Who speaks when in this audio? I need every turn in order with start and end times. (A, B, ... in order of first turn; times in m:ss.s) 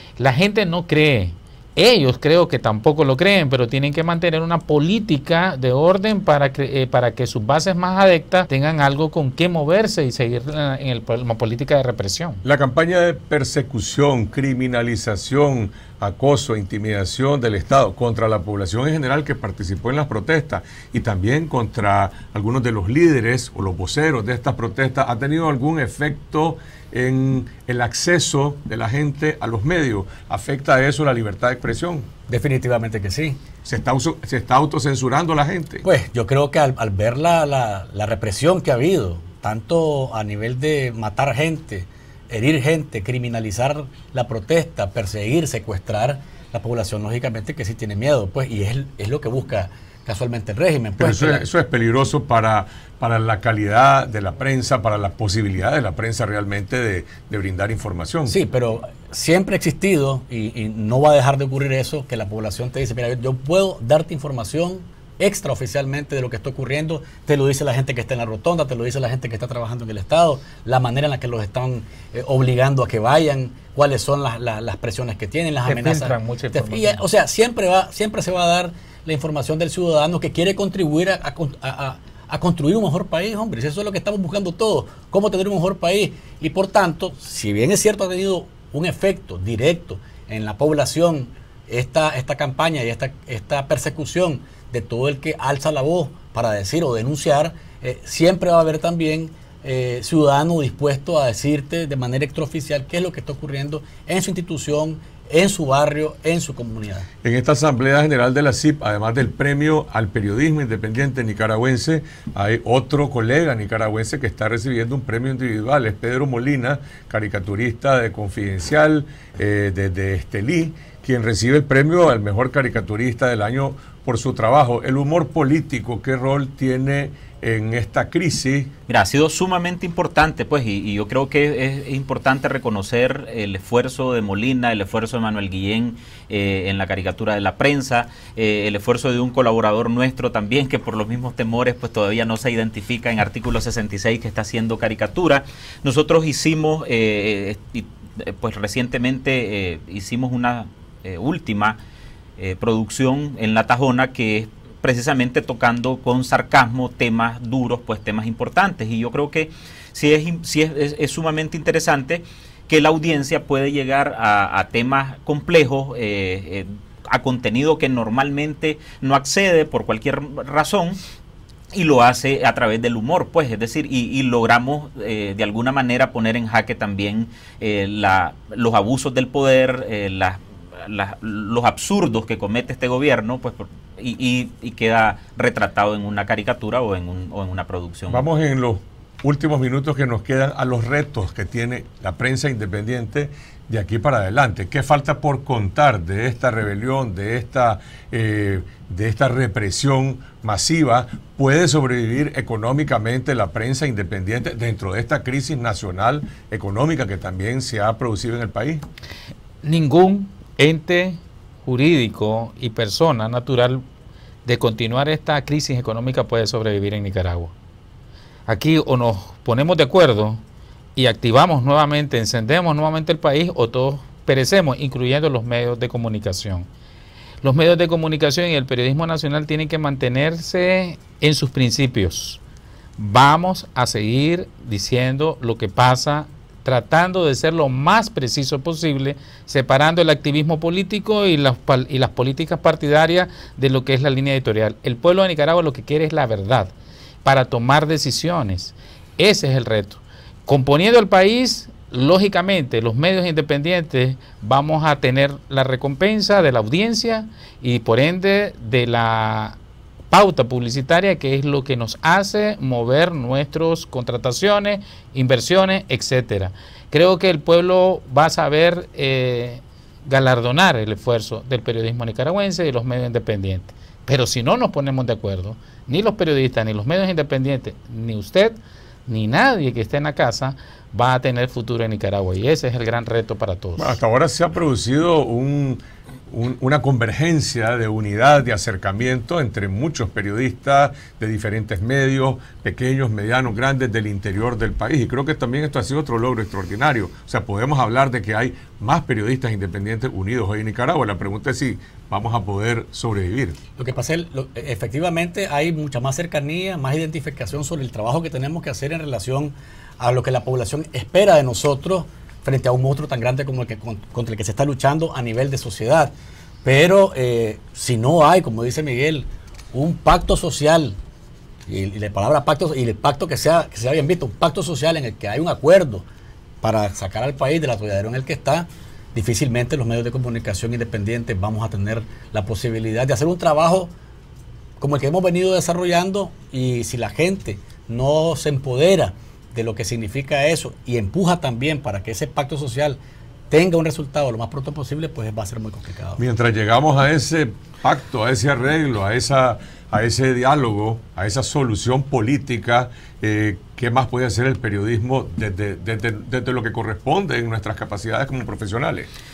0:00.2-0:12.4 A
0:12.4-0:32.1 B
0:32.3-0:33.4 C
0:33.6-0:35.9 B
0:35.8-0:51.5 C
0:51.0-0:58.3 B
0:58.3-1:47.1 C
1:15.7-1:17.0 A
1:47.2-2:08.7 B
2:08.9-2:31.8 D
2:32.4-2:51.0 D
2:51.7-3:08.2 D
3:08.1-3:28.8 B
3:29.6-3:33.8 A
3:34.4-3:37.5 A
3:38.5-3:40.4 A
3:41.0-3:46.7 A
3:47.4-3:52.4 A
3:53.0-4:19.6 A
4:20.1-4:44.0 A
4:43.8-5:03.6 B
5:03.8-5:16.1 C
5:16.6-5:21.0 C
5:21.7-5:26.0 C
5:26.6-5:33.9 C
5:34.8-5:43.0 C
5:43.5-5:46.2 C
5:46.2-5:59.1 B